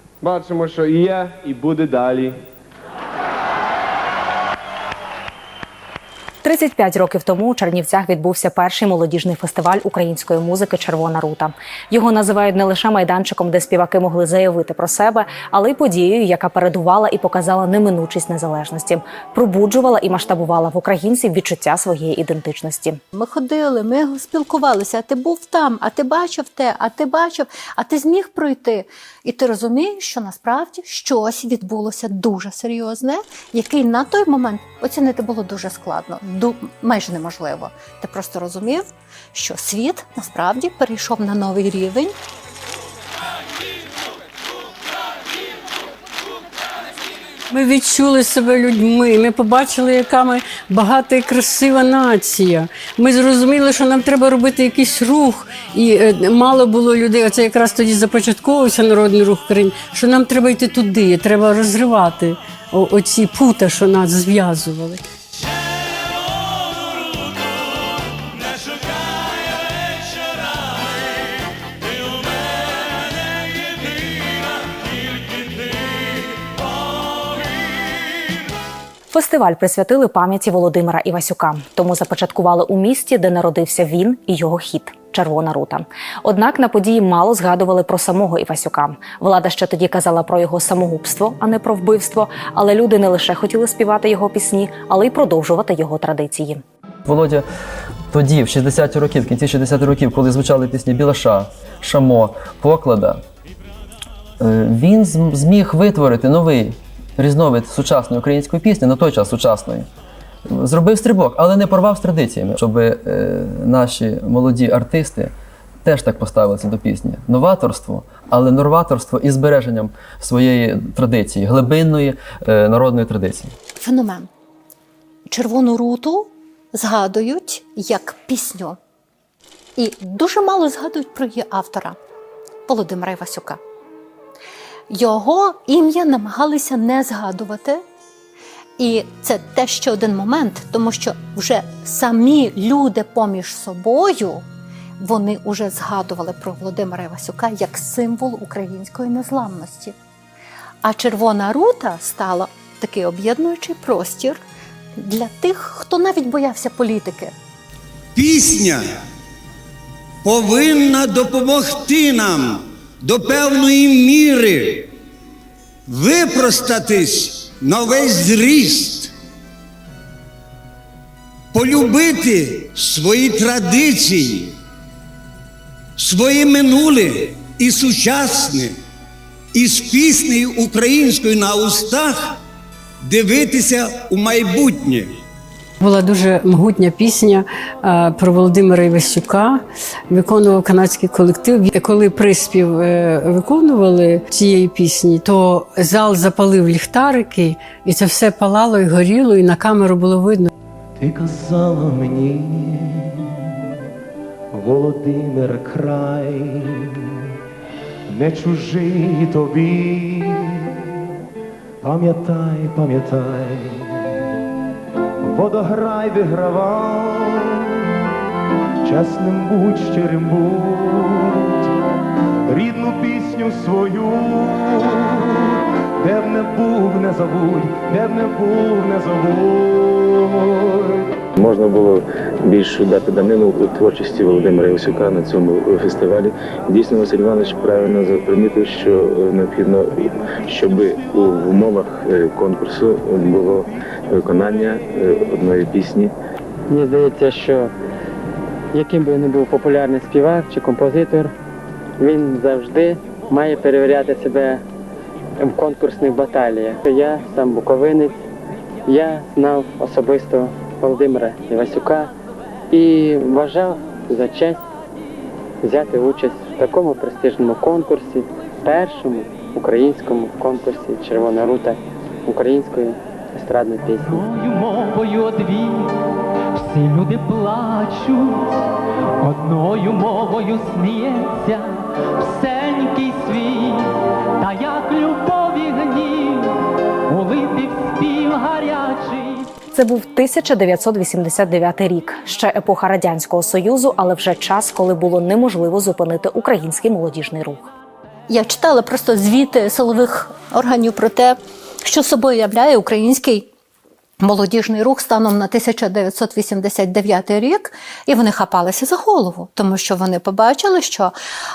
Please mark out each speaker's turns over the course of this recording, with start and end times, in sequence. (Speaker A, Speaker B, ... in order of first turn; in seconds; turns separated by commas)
Speaker A: 0.2-2.3, Speaker B: 6.4-23.0, Speaker C: 23.1-42.1, Speaker D: 47.5-65.0, Speaker B: 79.1-96.6, Speaker E: 97.0-97.4, Speaker E: 98.1-103.2, Speaker E: 104.4-109.9, Speaker E: 110.5-123.5, Speaker C: 123.8-124.3, Speaker C: 125.3-128.8, Speaker C: 129.8-131.9, Speaker C: 132.7-133.6, Speaker C: 134.9-137.8, Speaker C: 138.8-144.4, Speaker C: 145.0-149.9, Speaker C: 150.8-154.4, Speaker C: 155.0-157.3, Speaker F: 158.1-158.9, Speaker F: 160.2-164.9, Speaker F: 165.9-169.1, Speaker F: 171.5-174.5, Speaker F: 176.0-178.8, Speaker F: 179.5-182.4, Speaker F: 183.0-185.1, Speaker D: 185.8-200.5, Speaker G: 201.0-203.4, Speaker G: 204.5-207.1, Speaker G: 208.1-210.7, Speaker G: 211.8-214.1, Speaker G: 215.2-217.7, Speaker G: 218.8-221.7, Speaker G: 222.5-231.0, Speaker H: 231.3-246.1, Speaker I: 246.7-247.7, Speaker I: 248.7-251.3, Speaker I: 252.0-254.6, Speaker I: 255.4-258.1, Speaker I: 258.9-262.1, Speaker I: 262.7-264.6, Speaker I: 265.6-274.2, Speaker J: 274.1-275.9, Speaker J: 276.6-278.5, Speaker J: 279.2-286.6, Speaker J: 287.1-289.5, Speaker B: 289.7-297.7, Speaker C: 298.3-303.5, Speaker C: 304.2-311.1